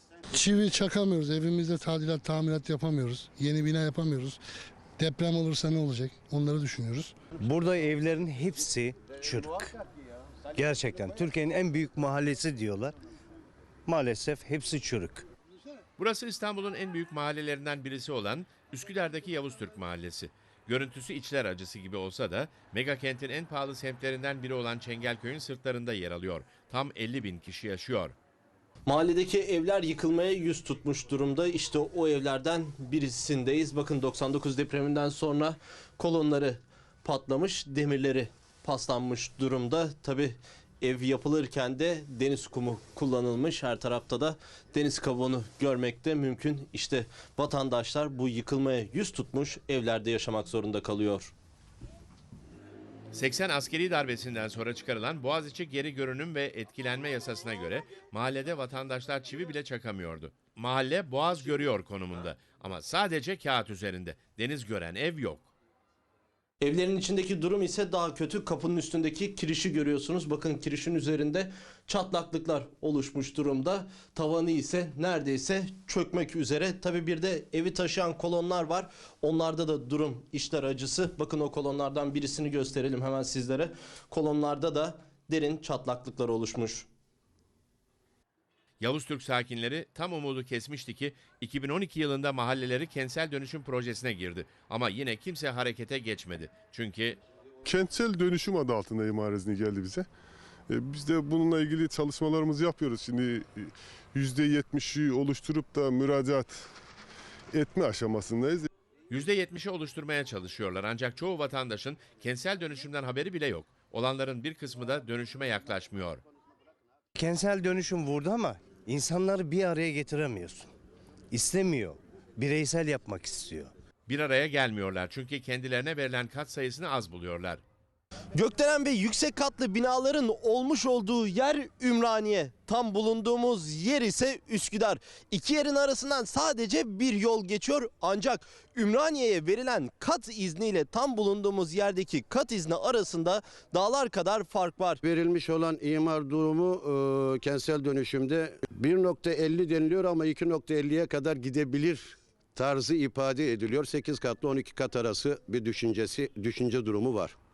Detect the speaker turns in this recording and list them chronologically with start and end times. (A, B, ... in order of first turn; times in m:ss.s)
0:00.4-0:04.4 A
0:05.0-0:07.1 A
0:07.4-0:09.8 B
0:10.6-0:13.0 B
0:13.9-0:15.3 B
0:16.0-0:28.2 C
0:28.9-0:51.3 D
0:53.1-1:05.5 C
1:06.6-1:26.9 D
1:28.8-1:37.2 C
1:37.6-1:40.1 E
1:40.7-1:46.7 E
1:47.5-1:48.7 E
1:49.1-1:56.2 C
1:57.2-2:00.7 B
2:01.3-2:03.7 B
2:04.1-2:07.6 C
2:08.3-2:25.0 D
2:25.0-2:37.4 F